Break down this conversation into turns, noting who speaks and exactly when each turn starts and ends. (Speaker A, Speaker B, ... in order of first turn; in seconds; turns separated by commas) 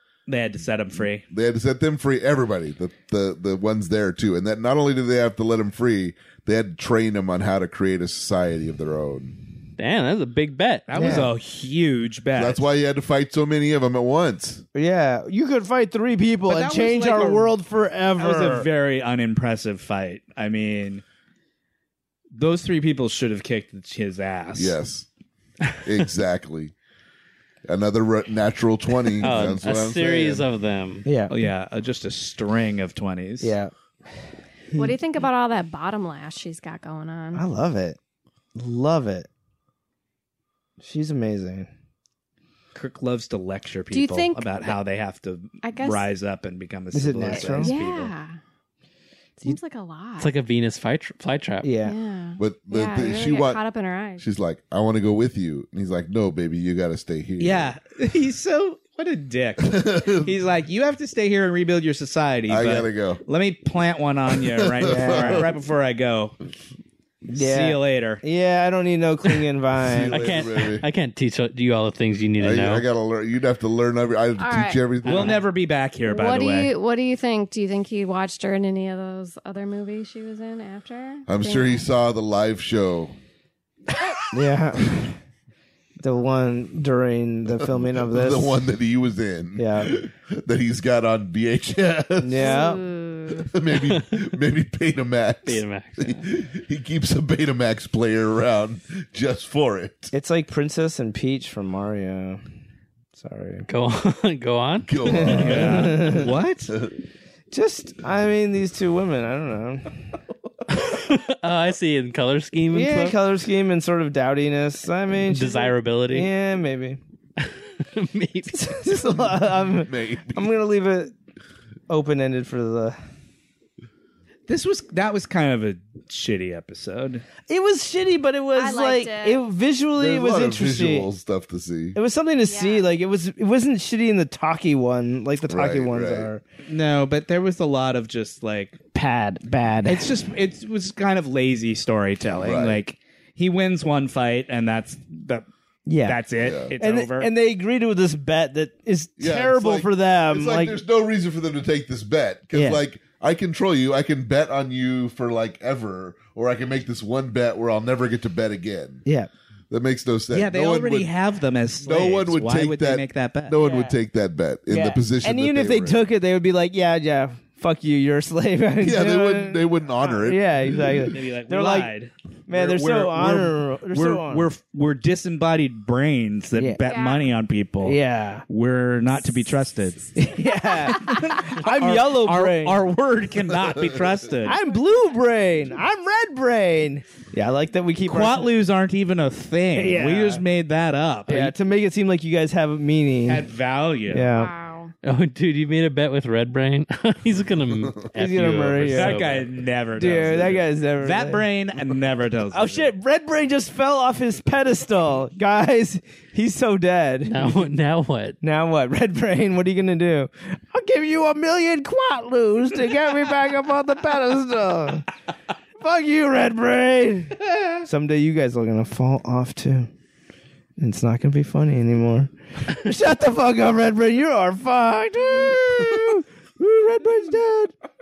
Speaker A: 0.3-1.2, Speaker B: 1.2-9.3, Speaker C: 9.8-11.1, Speaker A: 10.9-12.6, Speaker D: 10.9-11.3, Speaker B: 12.3-14.6, Speaker D: 14.7-18.7, Speaker A: 16.5-17.5, Speaker A: 18.2-21.0, Speaker A: 22.4-24.8, Speaker B: 24.5-25.1, Speaker B: 25.8-26.7, Speaker B: 27.7-30.4, Speaker C: 29.2-31.1, Speaker D: 31.1-31.3, Speaker A: 31.3-33.5, Speaker D: 33.4-33.7, Speaker D: 34.7-35.0, Speaker E: 34.7-37.4, Speaker D: 37.3-38.0, Speaker D: 38.5-39.3, Speaker D: 40.8-41.7, Speaker A: 42.7-48.1, Speaker E: 43.9-44.8, Speaker E: 45.6-46.0, Speaker D: 46.9-47.7, Speaker E: 47.5-48.4, Speaker E: 49.4-50.3, Speaker C: 50.2-51.7, Speaker D: 51.6-52.0, Speaker E: 51.8-54.2, Speaker B: 52.4-53.6, Speaker B: 54.2-57.7, Speaker A: 57.4-66.4, Speaker B: 59.6-60.3, Speaker B: 62.5-63.2, Speaker B: 64.4-65.5, Speaker D: 64.8-65.5, Speaker A: 67.3-68.2, Speaker D: 67.3-70.3, Speaker B: 69.8-70.8, Speaker C: 70.1-72.8, Speaker B: 72.4-75.4, Speaker E: 74.4-75.3, Speaker A: 75.0-76.7, Speaker E: 76.1-81.8, Speaker B: 81.3-83.1, Speaker D: 84.3-85.2, Speaker D: 86.0-88.6, Speaker B: 87.6-92.7, Speaker D: 89.5-90.0, Speaker D: 92.2-92.8, Speaker E: 92.4-93.5, Speaker B: 93.3-100.1, Speaker C: 95.4-96.2, Speaker D: 100.1-102.4, Speaker D: 103.1-103.7, Speaker C: 103.7-106.1, Speaker B: 104.9-105.8, Speaker D: 105.0-106.3, Speaker A: 105.3-106.7, Speaker D: 107.5-110.0, Speaker C: 110.7-113.2, Speaker D: 112.7-117.0, Speaker C: 115.3-116.3, Speaker C: 117.4-118.9, Speaker D: 118.5-121.1, Speaker B: 119.0-120.5, Speaker D: 121.9-123.0, Speaker A: 124.5-127.2, Speaker D: 127.5-131.1, Speaker E: 128.5-129.4, Speaker B: 130.0-132.0, Speaker D: 131.9-136.4, Speaker E: 132.5-132.9, Speaker B: 135.5-136.3, Speaker A: 136.6-138.8, Speaker D: 138.9-140.1, Speaker A: 139.8-145.4, Speaker B: 142.3-142.8, Speaker D: 145.9-146.2, Speaker A: 146.0-147.3, Speaker B: 146.4-146.7, Speaker D: 146.8-150.8, Speaker B: 149.2-159.0, Speaker D: 152.5-152.8, Speaker B: 159.7-161.1, Speaker A: 160.3-163.6, Speaker B: 161.8-166.0, Speaker D: 163.6-164.0, Speaker D: 164.7-171.9, Speaker B: 168.8-170.7, Speaker A: 171.0-180.2, Speaker D: 172.5-174.5, Speaker D: 176.6-176.8, Speaker E: 176.8-177.2, Speaker D: 177.8-178.4, Speaker D: 180.2-182.8, Speaker A: 180.8-184.6, Speaker D: 184.4-188.5, Speaker A: 188.1-191.5, Speaker D: 189.7-190.4, Speaker D: 191.3-193.4, Speaker A: 193.2-194.3, Speaker D: 194.1-194.5, Speaker E: 194.3-194.9, Speaker C: 195.0-199.5, Speaker D: 198.1-199.2, Speaker A: 198.9-202.9, Speaker D: 200.0-201.4, Speaker D: 202.5-207.6, Speaker C: 207.3-208.4, Speaker D: 208.4-215.1, Speaker D: 215.8-219.9, Speaker D: 220.8-227.7, Speaker B: 225.8-226.2